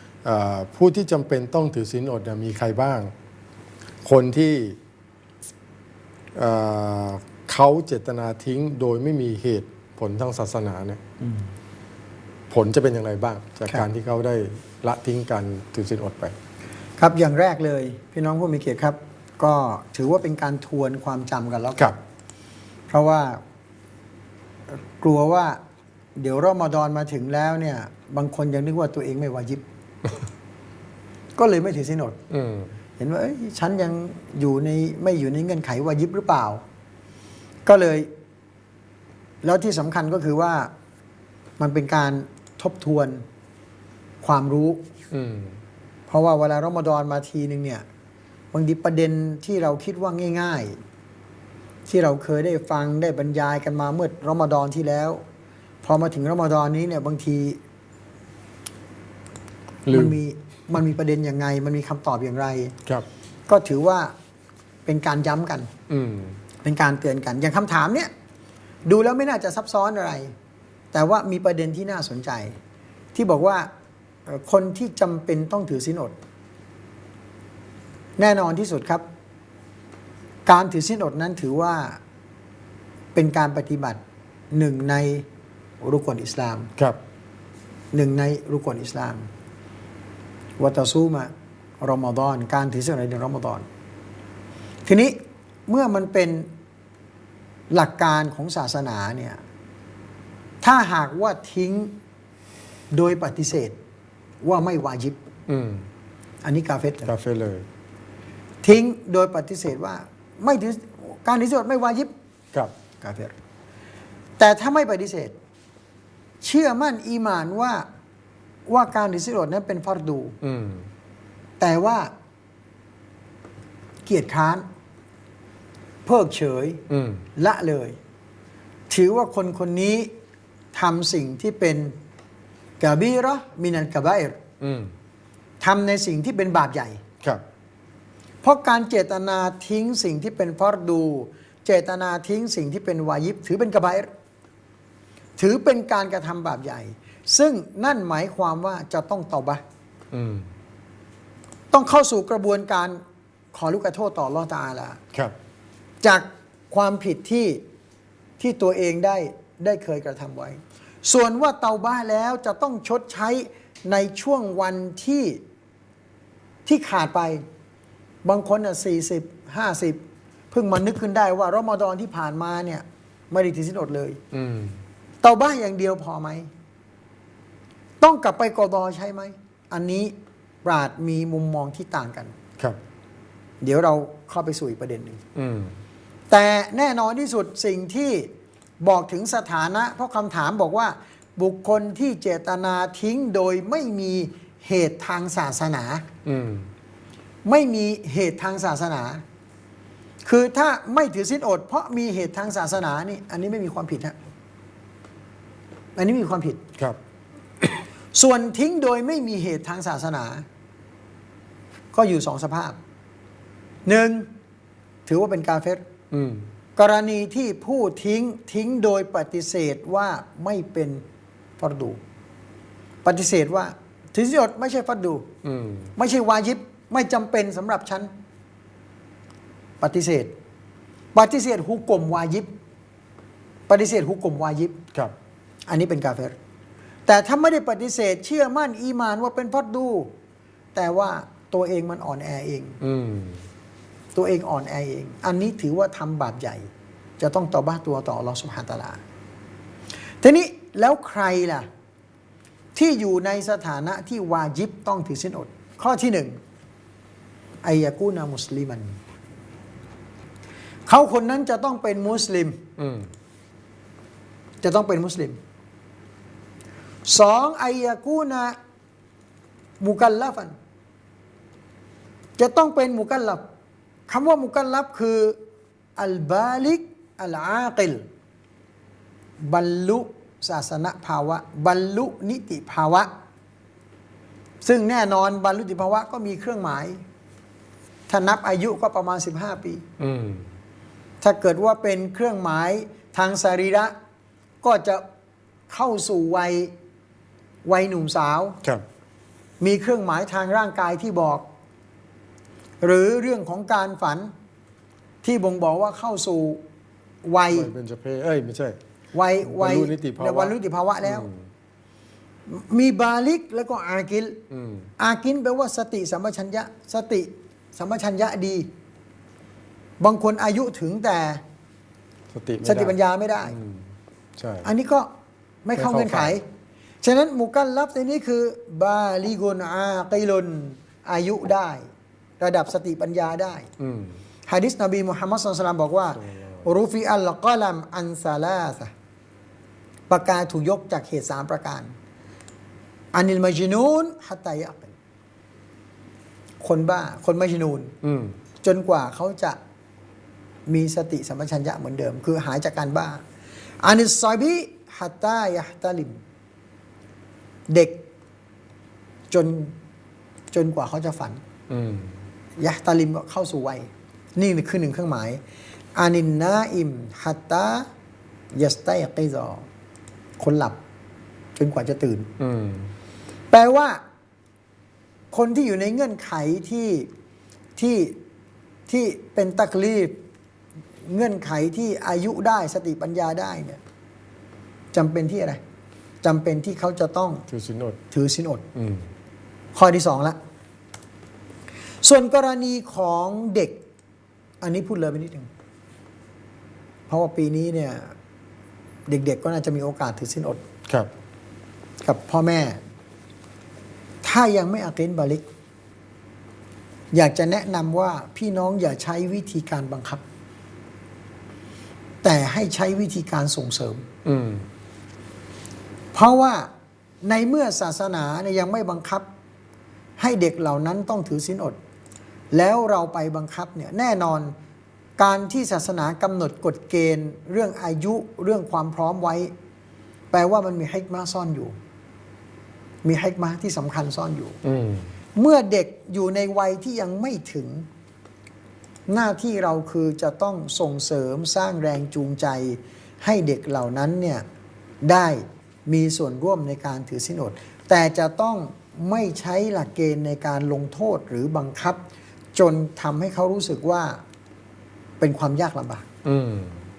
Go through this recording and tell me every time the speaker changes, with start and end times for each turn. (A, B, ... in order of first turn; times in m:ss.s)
0:00.2-0:03.1 A
0:04.0-0:04.8 A
0:06.4-0:11.0 A
0:12.5-0:16.4 A
0:17.0-0:22.0 B
0:22.9-0:23.4 B
0:25.0-0:25.6 B
0:26.2-0:29.6 B
0:31.4-0:32.2 B
0:32.3-0:32.7 A
0:33.0-0:36.6 B
0:37.7-0:38.1 B
0:39.4-0:40.7 B
0:41.6-0:43.2 B
0:44.2-0:44.8 B
0:45.1-0:45.6 A
0:46.1-0:47.8 B
0:48.5-0:50.8 B
0:51.9-0:55.2 B
0:55.8-0:57.6 B
0:59.9-1:00.2 A
0:59.9-1:02.7 B
1:03.5-1:04.1 B
1:04.9-1:05.7 B
1:05.9-1:06.4 A
1:06.6-1:08.1 B
1:08.8-1:10.3 B
1:10.9-1:12.6 B
1:13.2-1:13.7 B
1:14.3-1:16.2 B
1:18.2-1:19.0 B
1:20.5-1:22.0 B
1:23.2-1:24.0 B
1:24.5-1:25.2 B
1:25.8-1:26.7 B
1:27.9-1:29.3 B
1:30.6-1:33.6 B
1:34.9-1:36.5 B
1:37.7-1:39.4 B
1:40.6-1:42.0 B
1:42.9-1:43.8 B
1:44.4-1:45.2 B
1:45.5-1:45.9 A
1:46.4-1:47.1 B
1:47.0-1:47.7 A
1:48.6-1:52.1 B
1:53.0-1:53.3 B
1:54.4-1:55.4 B
1:56.4-1:57.8 B
1:58.7-2:00.4 B
2:00.4-2:00.9 A
2:01.6-2:02.1 B
2:04.1-2:04.6 B
2:06.0-2:06.8 B
2:06.9-2:07.2 A
2:07.4-2:08.0 B
2:08.9-2:10.1 B
2:10.7-2:11.9 B
2:12.8-2:14.4 B
2:14.6-2:14.9 A
2:15.6-2:17.0 B
2:18.4-2:24.1 B
2:25.4-2:29.6 B
2:30.1-2:30.5 A
2:31.7-2:33.0 B
2:33.5-2:35.0 B
2:36.0-2:37.6 B
2:38.4-2:45.4 B
2:46.7-2:47.4 B
2:48.2-2:50.0 B
2:50.5-2:54.2 B
2:54.3-2:54.8 A
2:55.2-2:56.5 B
2:58.0-3:00.1 B
3:00.6-3:02.4 B
3:03.6-3:05.2 B
3:05.4-3:05.8 A
3:06.3-3:08.3 B
3:08.8-3:16.0 B
3:16.2-3:16.7 A
3:17.4-3:19.2 B
3:20.2-3:24.2 B
3:26.0-3:26.6 B
3:27.6-3:30.4 B
3:31.9-3:32.8 B
3:33.8-3:34.3 B
3:35.1-3:35.8 B
3:36.1-3:36.5 A
3:36.8-3:41.0 B
3:41.6-3:42.0 B
3:43.0-3:45.3 B
3:45.4-3:45.9 A
3:46.0-3:48.1 B
3:49.8-3:50.3 B
3:51.1-3:52.5 B
3:53.7-3:54.8 B
3:55.7-3:56.4 B
3:57.1-4:00.1 B
4:00.7-4:02.8 B
4:02.8-4:03.4 A
4:04.1-4:06.7 B
4:07.2-4:09.0 B
4:10.2-4:11.7 B
4:12.8-4:16.4 B
4:17.6-4:19.0 B
4:20.9-4:22.6 B
4:22.8-4:23.1 A
4:24.6-4:25.4 B
4:27.1-4:28.6 B
4:29.8-4:30.6 B
4:32.4-4:33.4 B
4:34.1-4:35.4 B
4:36.0-4:38.0 B
4:39.4-4:43.1 B
4:44.6-4:47.0 B
4:48.1-4:49.8 B
4:50.0-4:50.5 A
4:51.2-4:53.9 B
4:54.6-4:55.0 B
4:55.7-4:56.7 B
4:57.6-4:58.6 B
4:59.6-5:01.5 B
5:02.8-5:04.3 B
5:05.2-5:06.6 B
5:07.2-5:07.7 B
5:07.5-5:08.8 A
5:09.1-5:11.3 B
5:09.4-5:11.5 A
5:12.5-5:14.4 B
5:14.5-5:14.9 A
5:15.0-5:18.7 B
5:20.0-5:21.4 B
5:22.3-5:23.0 A
5:22.6-5:23.6 B
5:23.5-5:23.9 A
5:24.4-5:24.7 A
5:24.6-5:25.1 B
5:25.6-5:26.4 B
5:25.8-5:26.4 A
5:27.0-5:31.8 B
5:32.4-5:33.7 B
5:33.8-5:34.2 A
5:34.5-5:38.9 B
5:36.2-5:36.6 A
5:40.1-5:41.9 B
5:43.1-5:44.9 B
5:46.6-5:47.9 B
5:48.0-5:48.3 A
5:48.6-5:49.6 B
5:50.7-5:53.2 B
5:53.8-5:56.2 B
5:57.7-5:58.0 B
5:59.3-5:59.8 B
6:00.5-6:01.4 B
6:01.7-6:02.1 A
6:02.6-6:05.4 B
6:06.0-6:07.9 B
6:08.5-6:09.7 B
6:10.4-6:10.8 B
6:11.6-6:12.3 B
6:12.4-6:12.9 A
6:13.5-6:14.0 B
6:15.3-6:17.1 B
6:17.8-6:18.2 B
6:18.9-6:20.2 B
6:21.1-6:23.8 B
6:24.9-6:25.6 B
6:26.2-6:27.4 B
6:27.5-6:28.0 A
6:28.1-6:28.6 B
6:28.8-6:29.1 A
6:29.8-6:30.4 B
6:32.0-6:33.8 B
6:34.6-6:35.5 B
6:37.1-6:38.1 B
6:39.1-6:40.6 B
6:42.0-6:42.8 B
6:44.2-6:45.4 B
6:47.1-6:50.2 B
6:52.2-6:54.1 B
6:54.2-6:54.7 A
6:56.1-6:56.7 B
6:57.2-6:59.3 B
7:00.2-7:01.8 B
7:02.5-7:04.5 B
7:05.2-7:09.5 B
7:10.3-7:11.8 B
7:13.0-7:14.6 B
7:14.6-7:15.1 A
7:15.4-7:17.9 B
7:19.1-7:24.4 B
7:25.0-7:32.0 B
7:32.6-7:34.2 B
7:35.2-7:36.1 B
7:36.2-7:36.8 A